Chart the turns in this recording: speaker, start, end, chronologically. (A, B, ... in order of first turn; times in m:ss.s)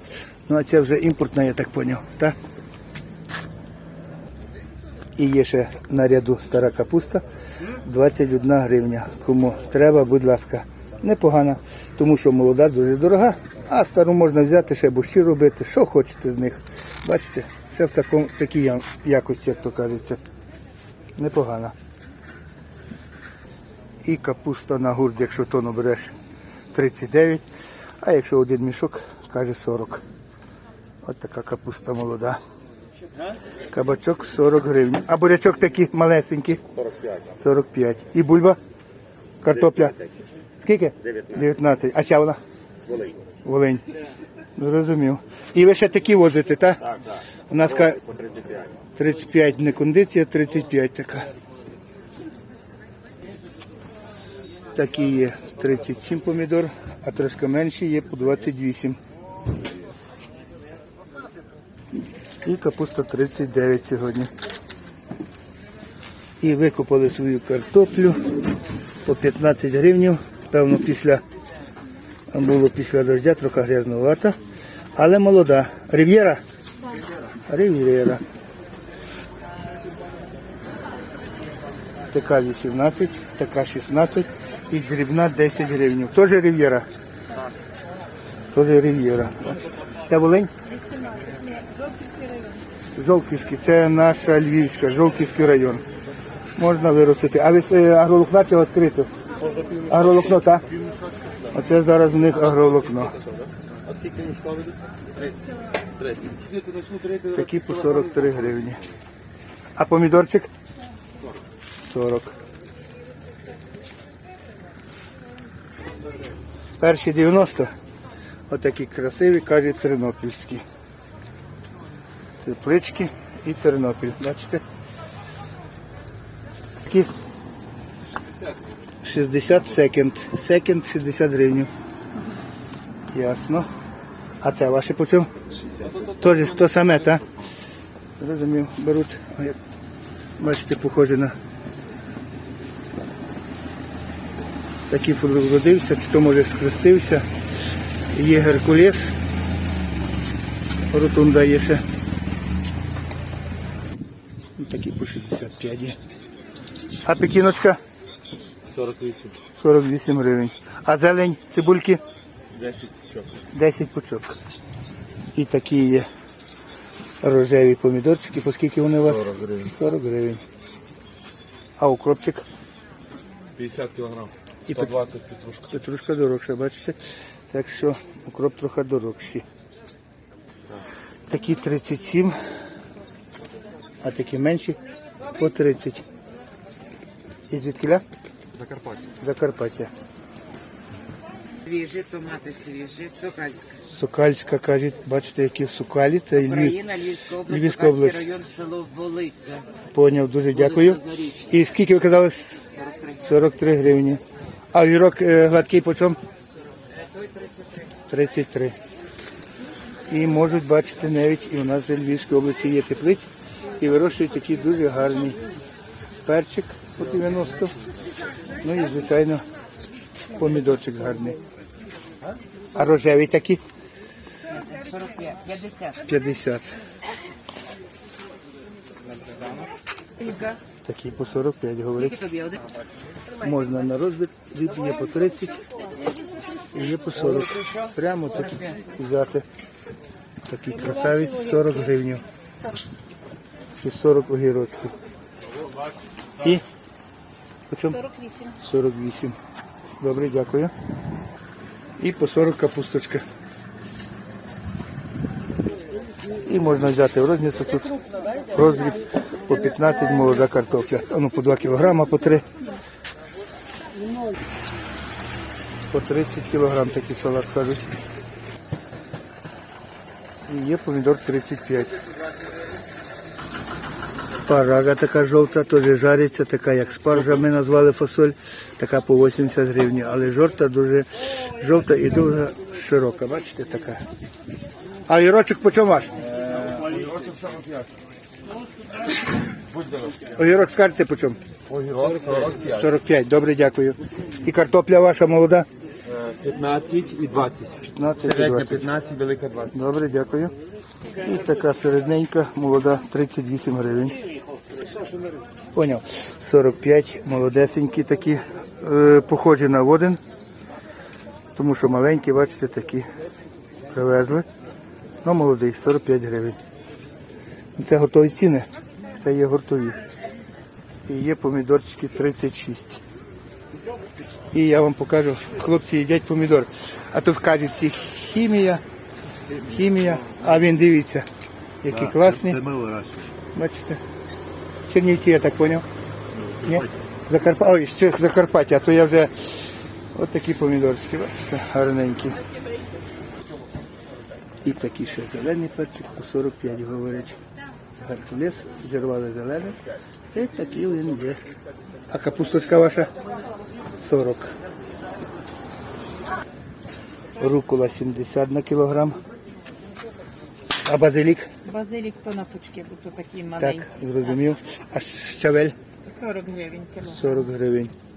0:00.5-0:02.4 A
0:05.2-0:07.2 A
0:07.8-0:20.2 A
0:21.2-0:21.7 A
0:24.0-0:26.1 A
0:26.7-0:27.4 A
0:28.0-0:30.0 A
0:31.0-0:32.4 A
0:33.7-0:36.6 A
0:37.4-0:38.6 A
0:39.4-0:40.0 A
0:40.6-0:42.4 A
0:43.4-0:43.8 A
0:44.6-0:46.9 A
0:47.5-0:48.1 A
0:49.0-0:51.3 A
0:54.7-0:59.0 A
1:02.4-1:04.3 A
1:06.4-1:08.2 A
1:09.0-1:11.2 A
1:12.3-1:14.4 A
1:15.0-1:16.4 A
1:17.5-1:18.2 A
1:22.1-1:26.9 A
1:28.5-1:30.5 A
1:30.8-1:32.5 B
1:32.9-1:35.8 A
1:36.6-1:39.1 A
1:39.8-1:40.7 A
1:41.5-1:43.2 A
1:43.9-1:44.8 C
1:46.0-1:46.3 C
1:47.3-1:48.8 A
1:49.8-1:50.5 A
1:51.9-1:52.4 A
1:56.8-1:57.7 A
1:58.5-2:00.6 A
2:02.4-2:04.6 A
2:09.0-2:11.7 A
2:13.1-2:13.7 A
2:14.4-2:15.3 A
2:15.8-2:17.3 A
2:18.2-2:19.6 A
2:20.4-2:21.4 A
2:24.9-2:27.3 A
2:28.1-2:29.1 A
2:30.9-2:31.8 A
2:34.6-2:36.0 A
2:37.0-2:37.8 A
2:38.7-2:39.3 C
2:39.5-2:42.0 A
2:42.5-2:43.2 C
2:43.5-2:44.4 A
2:45.3-2:46.1 A
2:47.2-2:50.4 A
2:51.8-2:52.4 A
2:53.6-2:54.3 C
2:54.6-2:57.0 A
2:57.5-2:59.4 A
3:01.3-3:02.3 A
3:04.0-3:04.8 A
3:05.3-3:06.0 A
3:07.5-3:08.0 A
3:08.6-3:09.0 C
3:09.2-3:09.9 A
3:11.6-3:13.8 D
3:13.9-3:16.8 A
3:16.4-3:19.6 D
3:17.4-3:18.3 A
3:19.9-3:22.6 A
3:20.5-3:21.4 D
3:23.2-3:24.2 A
3:24.7-3:26.2 A
3:28.1-3:28.8 A
3:30.1-3:35.4 A
3:36.2-3:37.7 A
3:38.6-3:39.4 A
3:40.3-3:41.4 A
3:42.7-3:43.6 A
3:44.5-3:46.0 D
3:46.0-3:46.7 A
3:50.2-3:50.6 D
3:50.8-3:52.2 A
3:52.0-3:52.6 D
3:53.4-3:55.6 A
3:56.7-3:59.4 A
4:00.5-4:02.2 A
4:03.8-4:04.9 A
4:07.7-4:09.4 A
4:10.0-4:10.7 A
4:12.0-4:13.2 A
4:16.4-4:18.0 A
4:18.5-4:22.5 A
4:25.9-4:27.9 A
4:30.5-4:32.0 A
4:34.4-4:44.0 A
4:45.1-4:46.1 A
4:46.4-4:47.8 C
4:50.3-4:51.4 A
4:51.7-4:52.7 C
4:52.6-4:55.7 A
4:56.1-4:57.8 C
4:57.8-4:58.9 A
4:58.7-4:59.7 C
4:59.7-5:00.5 A
5:01.2-5:04.2 A
5:05.7-5:10.2 A
5:11.5-5:13.0 A
5:13.9-5:14.4 A
5:15.2-5:16.6 A
5:17.8-5:18.7 A
5:19.2-5:20.0 A
5:21.0-5:23.0 A
5:24.5-5:28.8 A
5:29.5-5:31.3 A
5:31.8-5:32.9 A
5:33.5-5:34.0 A
5:34.9-5:35.8 A
5:36.6-5:39.3 A
5:40.1-5:42.4 A
5:44.6-5:47.4 A
5:48.0-5:49.8 A
5:50.3-5:51.4 A
5:52.1-5:53.1 A
5:54.0-5:54.5 A
5:57.4-5:59.2 A
6:00.8-6:01.5 A
6:01.6-6:03.8 B
6:03.5-6:05.8 A
6:06.0-6:07.2 B
6:07.0-6:07.9 A